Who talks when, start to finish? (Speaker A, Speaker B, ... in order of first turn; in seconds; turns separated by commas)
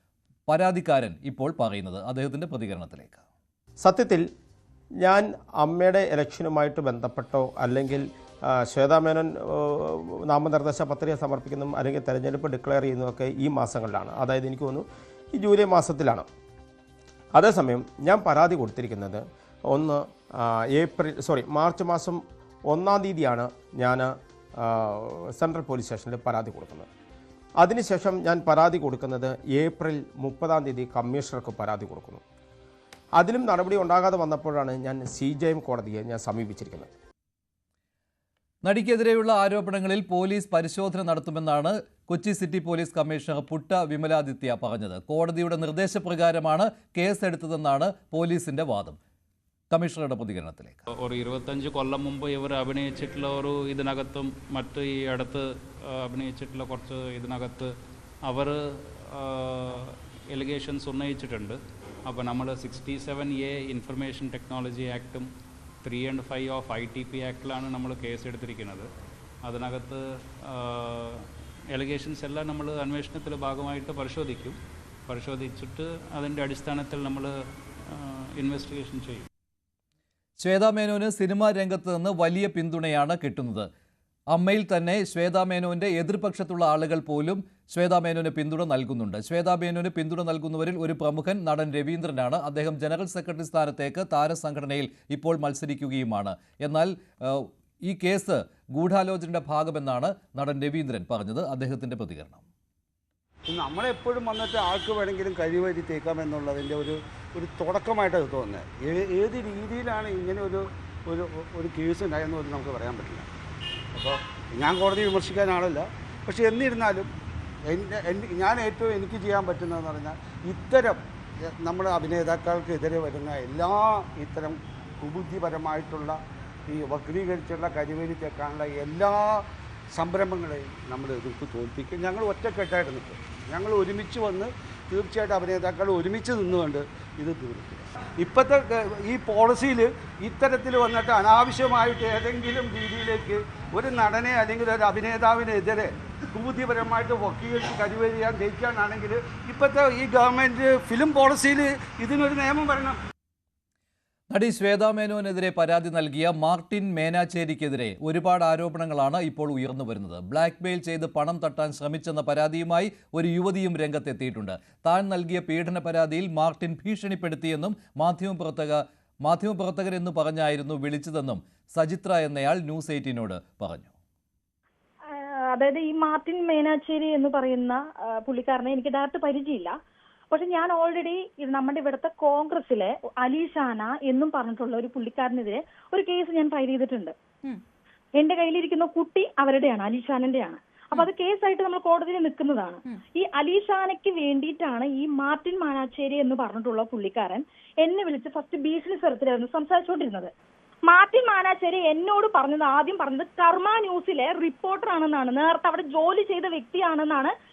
Speaker A: 0.5-3.2, Speaker B: 3.8-4.2, Speaker B: 5.0-16.3, Speaker B: 17.3-26.9, Speaker B: 27.6-32.2, Speaker B: 33.2-36.9, Speaker A: 38.6-49.0, Speaker A: 49.7-50.8, Speaker C: 50.9-57.7, Speaker C: 58.2-65.3, Speaker C: 65.8-68.9, Speaker C: 69.4-77.3, Speaker C: 77.9-79.2, Speaker A: 80.4-83.7, Speaker A: 84.3-102.4, Speaker D: 103.5-113.3, Speaker D: 113.9-117.1, Speaker D: 117.7-126.2, Speaker D: 126.7-153.0, Speaker A: 154.3-173.9, Speaker E: 175.1-179.8, Speaker E: 180.3-187.2, Speaker E: 188.2-200.3, Speaker E: 200.9-207.3